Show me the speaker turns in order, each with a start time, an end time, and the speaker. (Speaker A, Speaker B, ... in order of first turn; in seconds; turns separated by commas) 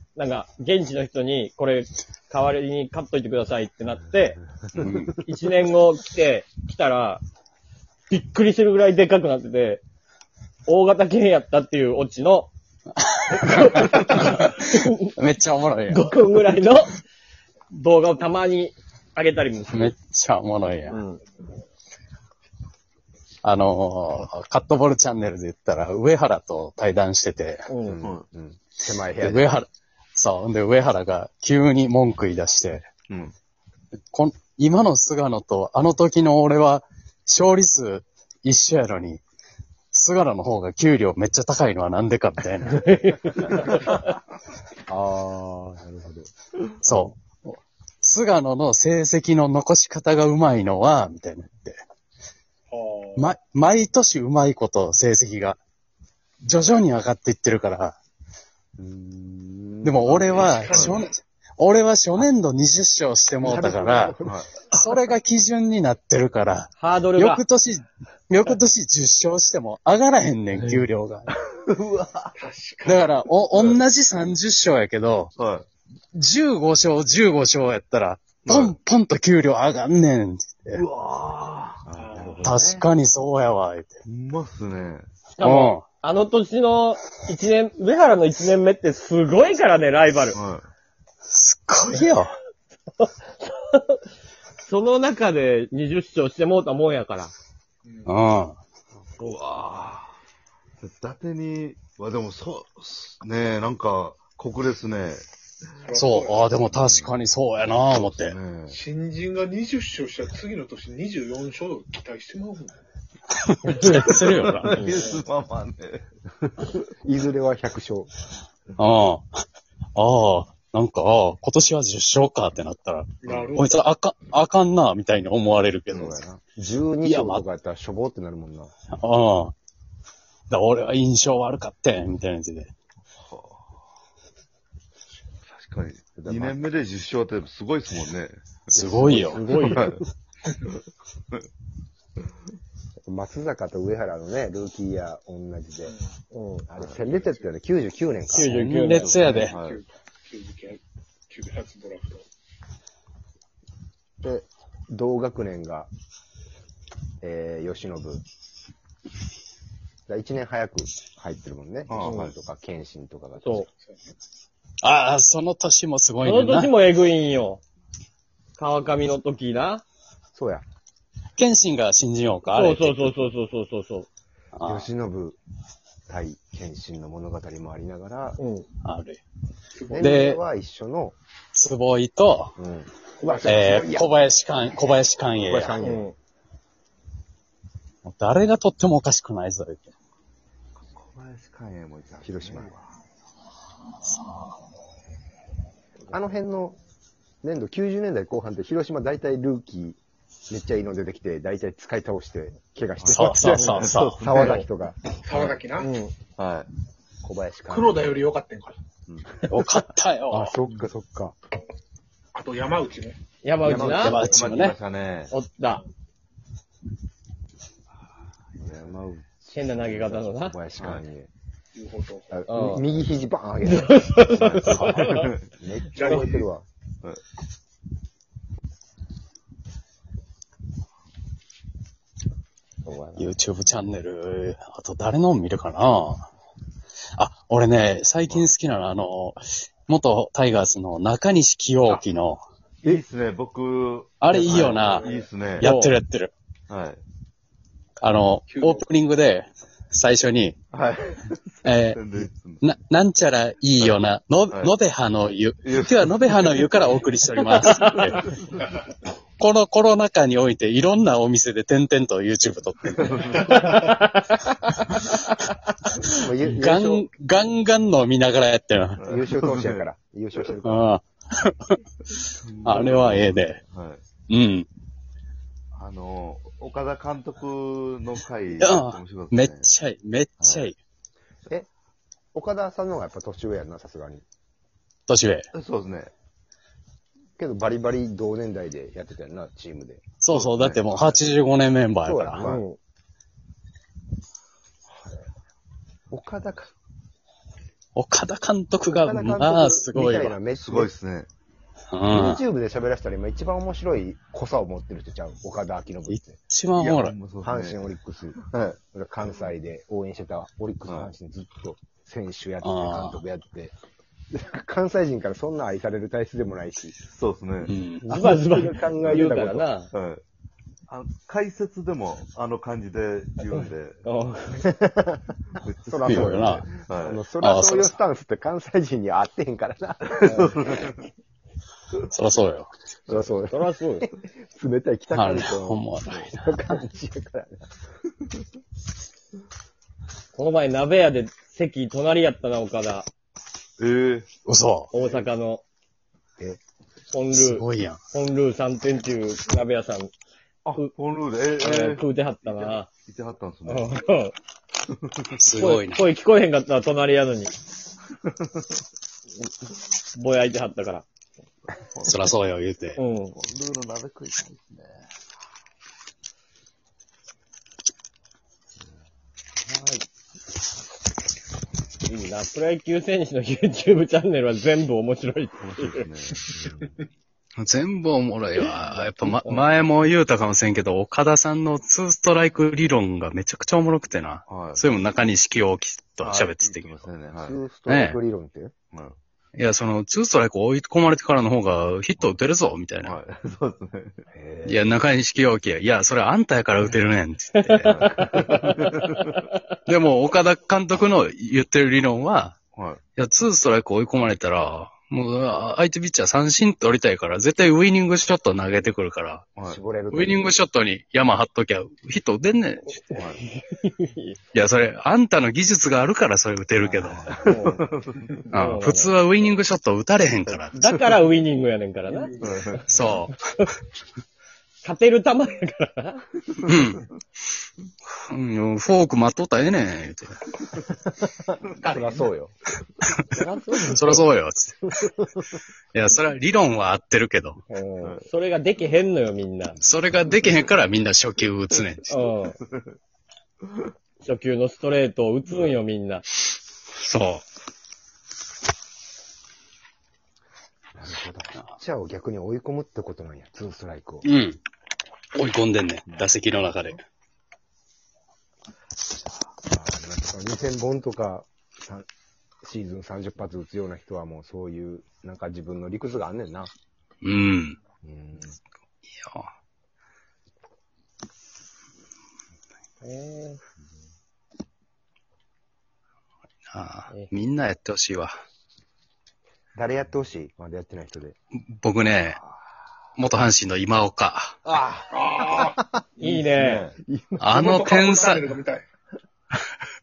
Speaker A: 0.2-4.4, Speaker B: 4.8-5.0, Speaker C: 4.8-5.2, Speaker A: 5.2-7.2, Speaker A: 8.1-9.8, Speaker A: 10.7-12.5, Speaker C: 13.1-16.1, Speaker A: 13.3-15.1, Speaker A: 15.9-17.0, Speaker A: 17.7-19.9, Speaker C: 19.7-21.0, Speaker A: 20.9-21.2, Speaker C: 23.4-27.7, Speaker A: 27.7-28.0, Speaker D: 27.9-29.6, Speaker C: 29.2-32.9, Speaker B: 33.1-33.4, Speaker C: 34.1-39.2, Speaker C: 39.9-42.9, Speaker A: 42.7-44.0, Speaker D: 44.9-46.3, Speaker C: 46.8-51.8, Speaker D: 46.9-47.1, Speaker E: 52.7-53.4, Speaker C: 53.2-55.6, Speaker C: 56.4-58.0, Speaker D: 58.8-60.2, Speaker C: 59.8-64.2, Speaker E: 60.2-61.0, Speaker B: 60.6-61.0, Speaker D: 63.4-64.8, Speaker B: 64.2-64.6, Speaker C: 64.7-71.3, Speaker A: 66.8-67.4, Speaker B: 71.5-72.3, Speaker E: 72.4-73.2, Speaker C: 72.9-75.3, Speaker B: 73.5-73.8, Speaker B: 75.4-75.7, Speaker C: 76.1-80.8, Speaker B: 78.5-78.8, Speaker B: 80.7-82.8, Speaker E: 81.9-82.6, Speaker C: 82.4-84.0, Speaker B: 84.1-85.1, Speaker A: 85.3-90.4, Speaker C: 85.4-85.8, Speaker B: 90.3-90.7, Speaker C: 91.3-92.3, Speaker A: 93.0-94.0, Speaker A: 94.7-97.3, Speaker E: 97.9-98.1, Speaker C: 98.1-98.6, Speaker B: 99.2-100.2, Speaker B: 100.8-105.2, Speaker E: 105.8-106.5, Speaker C: 105.9-108.4, Speaker B: 106.7-107.1, Speaker B: 107.7-108.8, Speaker E: 108.7-112.8, Speaker C: 113.4-114.8, Speaker A: 113.7-114.0, Speaker B: 113.8-116.8, Speaker A: 114.7-115.2, Speaker D: 116.8-118.1, Speaker C: 118.8-119.2, Speaker C: 120.0-126.2, Speaker E: 123.2-123.8, Speaker D: 126.0-128.7, Speaker C: 127.0-127.4, Speaker C: 129.0-129.5, Speaker C: 130.5-132.7, Speaker B: 133.2-133.8, Speaker B: 135.5-140.0, Speaker D: 136.2-136.7, Speaker C: 138.7-139.5, Speaker D: 139.1-140.0, Speaker A: 139.1-139.9, Speaker D: 143.1-145.9, Speaker A: 146.3-146.7, Speaker D: 146.7-148.5, Speaker C: 148.3-149.6, Speaker A: 148.3-149.2, Speaker B: 148.8-149.8, Speaker E: 149.0-152.3, Speaker D: 154.2-155.9, Speaker D: 157.2-158.2, Speaker D: 160.1-163.7, Speaker B: 161.9-162.3, Speaker A: 162.0-162.3, Speaker A: 163.4-163.7, Speaker E: 163.7-164.0, Speaker C: 164.8-166.7, Speaker A: 166.2-167.6, Speaker A: 168.6-169.8, Speaker D: 170.3-170.7, Speaker C: 171.4-173.2, Speaker A: 172.5-174.1, Speaker C: 174.6-174.9, Speaker D: 174.7-175.4, Speaker D: 176.1-178.4, Speaker A: 178.4-178.7, Speaker C: 178.8-179.2, Speaker E: 179.8-180.3, Speaker D: 179.9-181.2, Speaker C: 180.0-180.4, Speaker C: 181.5-182.5, Speaker D: 182.6-184.1, Speaker A: 183.2-183.7, Speaker E: 183.2-183.7, Speaker C: 183.4-185.8, Speaker D: 185.3-186.1, Speaker A: 185.8-186.2, Speaker C: 188.0-189.9, Speaker B: 190.8-192.9, Speaker D: 192.2-192.8, Speaker D: 196.1-196.8, Speaker D: 197.4-205.0, Speaker B: 203.0-204.6, Speaker C: 203.1-204.2, Speaker E: 205.1-205.9, Speaker B: 205.3-205.6, Speaker A: 205.8-206.1, Speaker B: 206.4-206.7, Speaker D: 207.2-208.2, Speaker E: 207.7-208.8, Speaker B: 209.1-209.4, Speaker C: 209.4-210.6, Speaker D: 210.3-211.4, Speaker E: 212.3-213.2, Speaker A: 213.4-214.3, Speaker D: 213.6-214.2, Speaker B: 213.7-215.3, Speaker C: 213.7-214.8, Speaker A: 215.3-215.8, Speaker B: 218.6-219.3, Speaker D: 218.9-221.3, Speaker A: 219.5-220.6, Speaker B: 220.8-221.0, Speaker E: 221.8-222.4, Speaker D: 222.3-226.7, Speaker A: 222.5-222.8, Speaker A: 223.7-225.3, Speaker B: 224.3-225.5, Speaker C: 224.7-225.2, Speaker E: 225.9-226.5, Speaker A: 232.8-233.4, Speaker C: 233.2-236.3, Speaker C: 237.2-242.4, Speaker B: 242.8-245.7, Speaker C: 244.2-246.3, Speaker E: 244.5-245.3, Speaker A: 245.6-246.0, Speaker B: 246.7-247.0, Speaker C: 248.0-250.6, Speaker E: 248.5-248.8, Speaker B: 250.7-252.6, Speaker C: 251.7-258.3, Speaker B: 253.8-254.7, Speaker B: 255.6-256.9, Speaker A: 257.6-258.2, Speaker B: 257.7-258.6, Speaker C: 259.4-263.2, Speaker B: 263.0-263.7, Speaker A: 263.5-264.6, Speaker D: 266.0-267.1, Speaker C: 266.4-269.0, Speaker B: 269.0-269.9, Speaker D: 269.0-270.9, Speaker C: 270.6-271.8, Speaker B: 272.4-274.0, Speaker C: 272.6-273.6, Speaker C: 274.3-274.7, Speaker B: 275.7-279.7, Speaker C: 278.6-280.8, Speaker B: 280.4-280.7, Speaker D: 282.3-284.2, Speaker C: 285.1-285.5, Speaker B: 285.5-286.1, Speaker D: 287.4-290.0, Speaker C: 290.2-292.5, Speaker B: 290.3-290.9, Speaker D: 292.0-292.6, Speaker A: 292.4-292.8, Speaker D: 296.1-296.7, Speaker C: 298.0-300.4, Speaker D: 298.9-300.9, Speaker B: 300.6-301.3, Speaker C: 301.9-302.4, Speaker D: 302.1-306.4, Speaker C: 306.1-307.2, Speaker B: 306.8-307.8, Speaker D: 307.4-308.4, Speaker B: 308.4-308.8, Speaker D: 308.9-313.7, Speaker B: 310.9-311.1, Speaker C: 312.6-313.2, Speaker D: 314.3-317.0, Speaker B: 317.1-317.7, Speaker C: 317.6-318.0, Speaker D: 318.1-319.7, Speaker A: 318.1-319.9, Speaker B: 319.9-320.2, Speaker B: 320.9-324.0, Speaker A: 324.1-324.7, Speaker D: 324.6-325.2, Speaker B: 325.6-327.2, Speaker D: 325.9-330.5, Speaker C: 326.1-326.7, Speaker C: 327.4-327.9, Speaker B: 330.1-331.1, Speaker A: 330.2-330.5, Speaker C: 332.1-332.7, Speaker D: 333.1-337.7, Speaker A: 333.5-334.1, Speaker C: 335.1-336.8, Speaker A: 340.3-343.1, Speaker B: 343.8-344.3, Speaker C: 344.5-344.9, Speaker A: 344.9-345.6, Speaker A: 347.1-350.1, Speaker C: 347.3-348.0, Speaker B: 350.6-354.0, Speaker A: 351.6-352.9, Speaker A: 353.7-354.4, Speaker B: 354.9-355.2, Speaker C: 355.4-356.1, Speaker A: 355.6-357.5, Speaker B: 358.2-358.6, Speaker A: 360.1-361.1, Speaker B: 361.8-362.3, Speaker C: 362.1-363.0, Speaker A: 363.0-363.3, Speaker B: 363.3-365.1, Speaker A: 369.7-370.1, Speaker A: 372.1-376.1, Speaker B: 375.6-376.4, Speaker C: 377.6-387.1, Speaker A: 379.3-379.7, Speaker B: 384.5-384.9, Speaker B: 386.2-387.6, Speaker D: 387.4-388.7, Speaker C: 387.9-388.2, Speaker B: 388.9-389.2, Speaker C: 389.6-393.2, Speaker B: 393.0-394.3, Speaker D: 394.3-394.9, Speaker C: 394.6-398.3, Speaker A: 397.6-398.8, Speaker B: 397.9-399.4, Speaker C: 399.9-402.6, Speaker B: 402.7-403.0, Speaker C: 403.2-409.5, Speaker D: 409.6-410.4, Speaker C: 410.1-413.0, Speaker A: 412.9-414.4, Speaker B: 413.1-413.4, Speaker C: 414.5-417.3, Speaker B: 416.9-418.4, Speaker A: 417.4-417.8, Speaker C: 418.5-420.9, Speaker A: 418.5-419.1, Speaker A: 420.7-422.5, Speaker B: 422.4-423.0, Speaker C: 422.9-423.3, Speaker A: 424.8-426.2, Speaker C: 426.7-427.1, Speaker C: 428.3-430.4, Speaker D: 431.5-432.5, Speaker E: 431.8-432.1, Speaker A: 433.3-434.2, Speaker C: 433.9-434.9, Speaker D: 434.9-435.3, Speaker C: 435.9-437.6, Speaker A: 437.7-439.8, Speaker C: 439.8-442.2, Speaker A: 442.1-442.6, Speaker A: 444.2-446.2, Speaker C: 447.0-447.4, Speaker D: 451.0-454.3, Speaker C: 454.2-454.6, Speaker C: 455.4-457.0, Speaker D: 459.7-462.1, Speaker D: 462.6-466.7, Speaker C: 467.2-467.8, Speaker D: 468.0-468.6, Speaker C: 469.2-469.5, Speaker A: 473.0-473.6, Speaker C: 476.7-478.3, Speaker D: 479.8-481.4, Speaker C: 481.7-482.4, Speaker C: 483.2-484.6, Speaker B: 484.7-485.0, Speaker E: 485.1-485.8, Speaker D: 485.4-485.9, Speaker A: 486.2-486.9, Speaker B: 486.2-487.0, Speaker D: 487.0-487.8, Speaker C: 487.4-488.5, Speaker E: 487.6-488.9